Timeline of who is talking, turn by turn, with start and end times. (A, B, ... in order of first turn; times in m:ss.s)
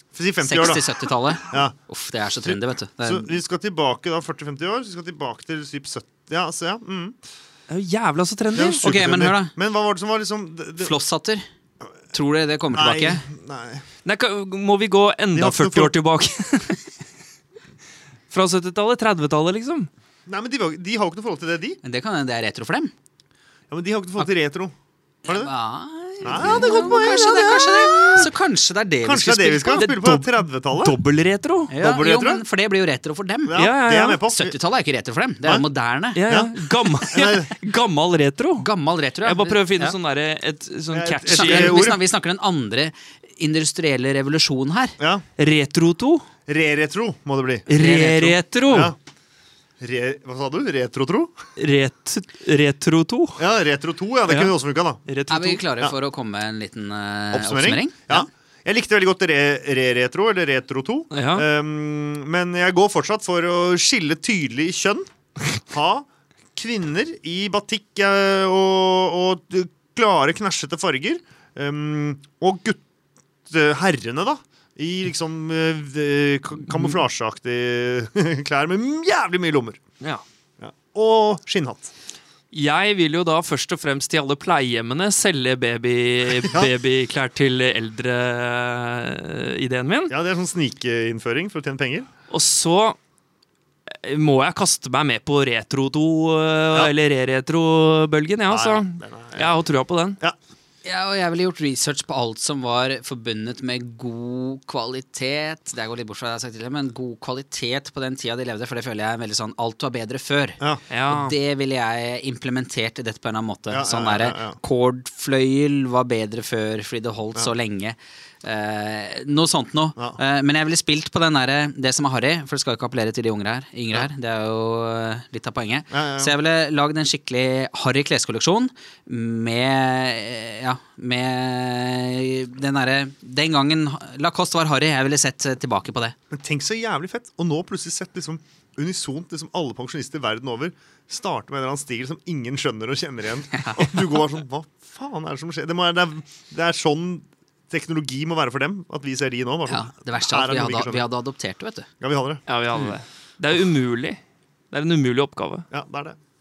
0:00.2-0:01.8 A
0:00.4-0:03.4 B
0:02.4-0:07.2 A
0:07.7-0:08.8 C
0:08.5-0:11.0 A
0:08.8-0:09.5 B
0:10.8-0:11.4 B
0:12.1-0:13.3 B
0:12.7-0:13.8 A
0:14.0-0:16.8 C
0:15.4-0:15.9 A
0:18.3-0:19.9 C
0:20.3-0:21.8 A
0:21.8-0:22.9 B
0:23.7-0:24.7 A
0:25.2-0:25.5 A
0:25.3-0:29.9 B
0:26.2-0:28.3 A
0:29.0-0:31.0 A
0:29.7-0:31.7 C
0:31.7-0:33.6 B
0:31.7-0:32.4 A
0:33.5-0:34.6 A
0:33.6-0:34.2 C
0:34.3-0:36.2 B
0:36.2-0:38.7 C
0:36.3-0:37.5 A
0:38.6-0:40.0 B
0:39.2-0:41.9 C
0:40.9-0:42.0 A
0:41.3-0:45.0 B
0:45.0-0:45.2 A
0:45.4-0:46.3 C
0:46.5-0:47.7 A
0:47.7-0:48.9 C
0:47.7-0:48.4 B
0:48.7-0:49.0 A
0:49.8-0:51.4 A
0:51.6-0:53.4 C
0:53.4-0:55.0 A
0:54.3-0:54.6 C
0:55.1-0:55.6 C
0:55.3-0:58.3 B
0:57.3-1:12.8 A
1:01.1-1:01.4 C
1:13.5-1:19.8 A
1:16.7-1:17.0 C
1:20.6-1:21.9 A
1:22.5-1:30.1 C
1:30.1-1:32.1 A
1:32.3-1:33.0 C
1:34.0-1:40.2 C
1:38.5-1:39.6 A
1:40.8-2:16.2 B
1:50.9-1:51.4 C
1:53.7-1:54.6 A
2:05.9-2:06.4 A
2:16.3-2:31.1 A
2:23.5-2:24.2 B
2:29.7-2:31.9 B
2:32.0-2:32.4 A
2:32.5-2:34.2 C
2:34.7-2:35.7 C
2:35.7-2:36.2 A